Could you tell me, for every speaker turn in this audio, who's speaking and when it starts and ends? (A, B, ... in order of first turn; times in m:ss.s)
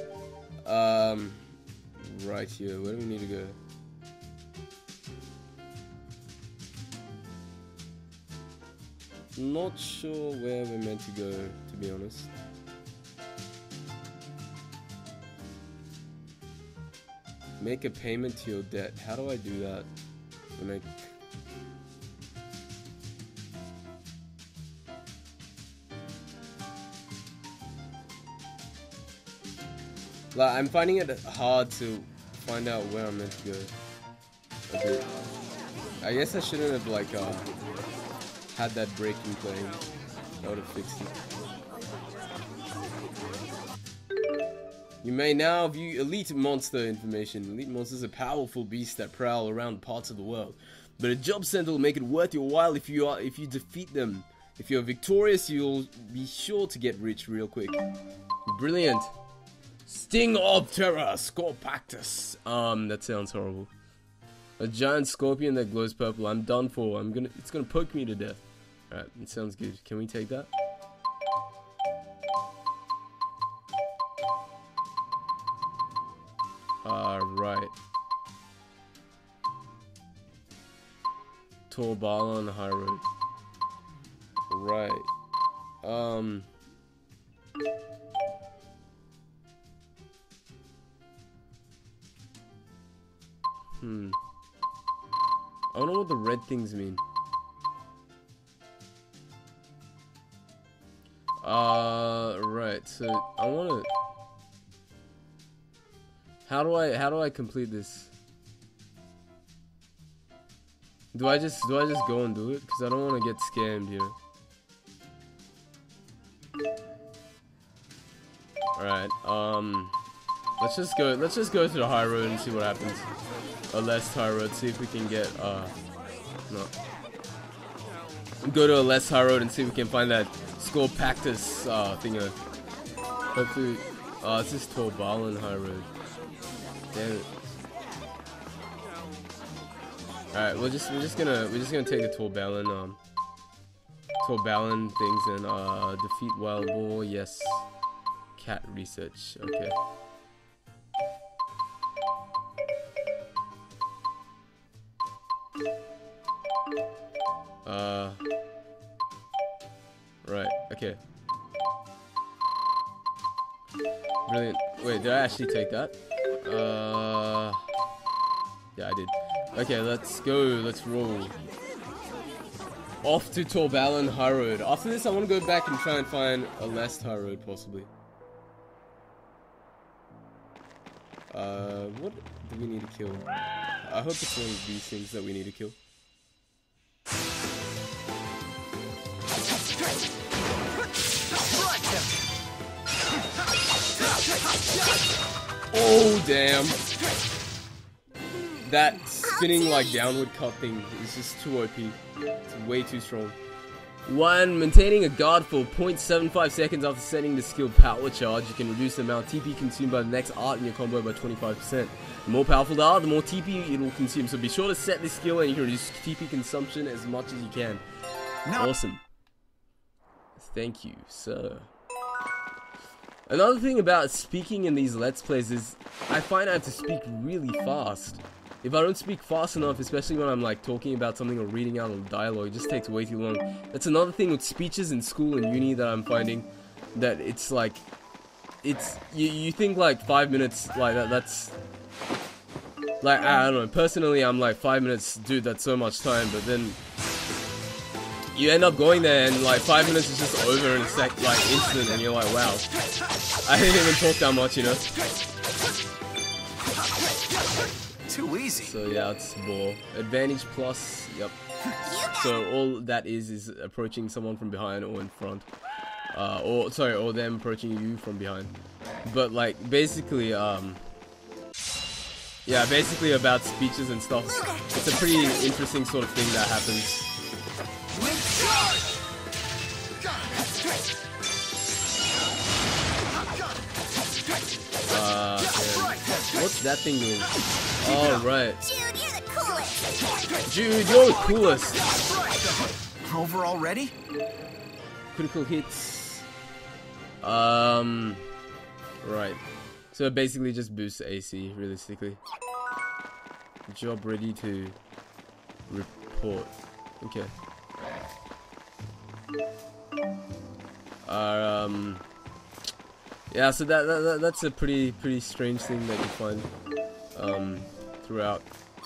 0:00.6-0:01.4 A
0:02.0-0:03.6 A
0:09.4-0:12.3 A
0:17.6-0:19.9 A
0:20.6-0:21.1 A
0:30.3-0:33.7 A
0:34.7-0:35.1 A
0:36.0-0:37.4 A
0:38.5-0:39.8 A
0:40.4-0:41.1 A
0:45.0-0:57.8 A
0:58.4-0:59.1 A
0:59.9-1:03.7 A
1:04.6-1:10.5 A
1:16.8-1:17.7 A
1:21.7-1:23.0 A
1:24.5-1:25.1 A
1:25.8-1:26.5 A
1:33.8-1:34.2 A
1:35.7-1:37.0 A
1:41.4-1:43.9 A
1:46.4-1:48.1 A
1:51.1-1:54.2 A
1:58.8-1:59.9 A
2:00.6-2:03.0 A
2:03.7-2:05.7 A
2:08.4-2:12.4 A
2:13.3-2:15.9 A
2:16.9-2:17.3 A
2:20.3-2:23.0 A
2:24.2-2:27.6 A
2:28.4-2:29.8 A
2:37.6-2:38.2 A
2:40.2-2:41.0 A
2:44.2-2:47.6 A
2:48.8-2:51.4 A
2:53.0-2:57.9 A
3:01.3-3:03.3 A
3:03.8-3:05.8 A
3:11.4-3:12.1 B
3:15.7-3:16.8 A
3:18.6-3:23.4 A
3:19.2-3:20.2 C
3:24.0-3:37.8 A
3:38.4-3:38.7 B
3:38.5-3:39.0 A
3:40.4-3:41.7 A
3:43.3-3:57.8 A
3:58.6-4:01.5 A
4:03.0-4:06.8 A
4:08.3-4:12.7 A
4:13.4-4:14.9 A
4:18.1-4:18.7 B
4:18.6-4:21.3 A
4:21.8-4:22.4 C
4:22.1-4:25.5 A
4:26.1-4:28.5 A
4:29.0-4:30.8 A
4:32.4-4:37.1 A
4:37.9-4:38.5 B
4:40.0-4:40.2 B
4:44.9-4:48.6 A
4:48.6-4:49.8 C
4:50.4-4:51.8 A
4:52.1-4:53.9 B
4:55.1-4:56.2 A
4:57.2-4:58.2 A
4:59.0-4:59.4 A
4:59.9-5:02.2 A
5:03.7-5:04.8 A
5:05.7-5:07.3 A
5:11.0-5:12.0 A
5:13.3-5:16.5 A
5:17.1-5:18.4 A